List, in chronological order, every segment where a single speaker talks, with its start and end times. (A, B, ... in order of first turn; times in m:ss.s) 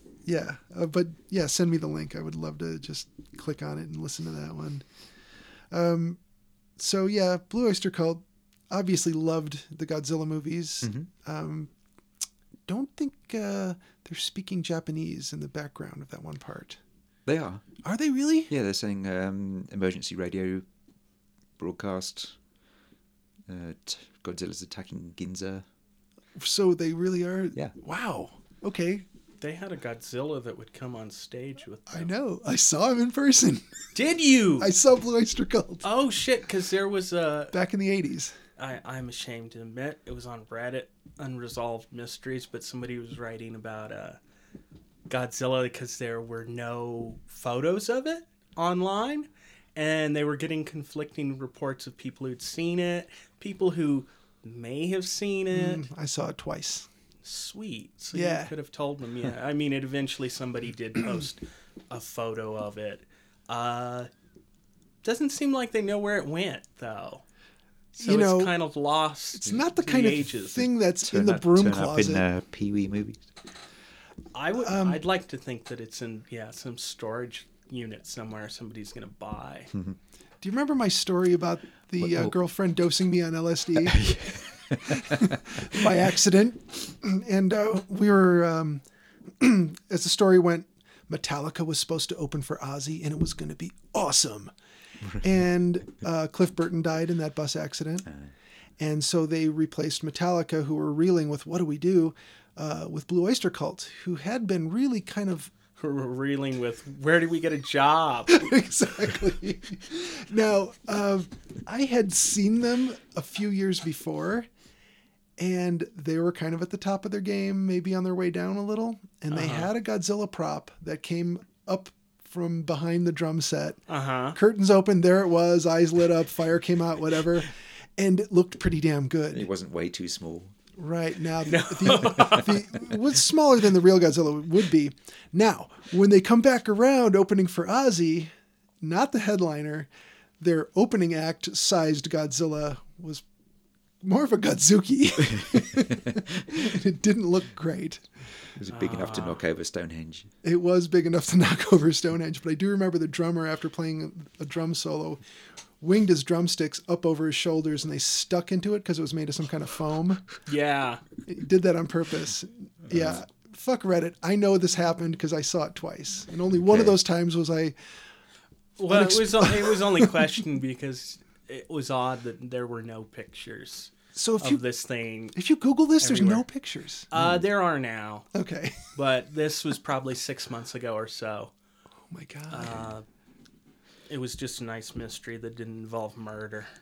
0:00.3-0:04.8 A
0:05.7-0:06.2 A
0:06.8-0:11.7 A
0:10.8-0:11.1 B
0:12.7-0:16.8 A
0:17.3-0:17.7 B
0:17.8-0:18.5 A
0:18.5-0:20.6 B
0:21.6-0:22.4 B
0:23.5-0:25.6 B
0:26.4-0:29.1 A
0:29.4-0:32.1 C
0:31.9-0:33.7 A
0:33.9-0:34.7 C
0:34.6-0:35.8 A
0:35.8-0:37.6 C
0:37.5-0:38.3 A
0:38.6-0:44.2 C
0:45.1-0:55.9 C
0:55.5-0:56.9 A
0:57.2-1:04.1 C
0:58.1-0:58.5 A
1:05.0-1:07.2 C
1:08.0-1:08.5 A
1:08.0-1:10.7 C
1:09.4-1:12.2 A
1:11.0-1:13.2 B
1:14.3-1:19.7 C
1:14.6-1:15.0 A
1:20.4-1:24.2 A
1:22.0-1:22.3 B
1:23.8-1:25.3 B
1:24.8-1:34.5 A
1:35.2-1:38.1 A
1:38.1-1:38.3 B
1:38.8-1:45.5 A
1:45.8-1:48.4 C
1:48.3-1:54.5 A
1:55.4-2:03.8 A
1:59.3-1:59.7 C
2:03.9-2:04.4 C
2:04.3-2:09.5 A
2:09.3-2:10.6 B
2:10.8-2:19.9 A
2:11.4-2:12.7 C
2:20.4-2:23.2 A
2:24.0-2:28.1 A
2:28.6-2:30.3 B
2:28.7-2:29.4 C
2:30.4-2:35.2 A
2:35.8-2:40.3 A
2:40.5-2:41.0 C
2:41.3-2:47.8 A
2:46.7-2:47.0 B
2:48.8-2:55.4 C
2:48.9-2:50.1 A
2:54.2-2:54.6 A
2:55.4-2:57.1 A
2:56.0-2:56.5 C
2:57.1-2:58.3 C
2:57.2-2:57.4 B
2:58.3-2:58.9 A
2:58.9-3:01.5 C
3:02.1-3:02.9 A
3:02.5-3:03.0 C
3:04.1-3:06.7 C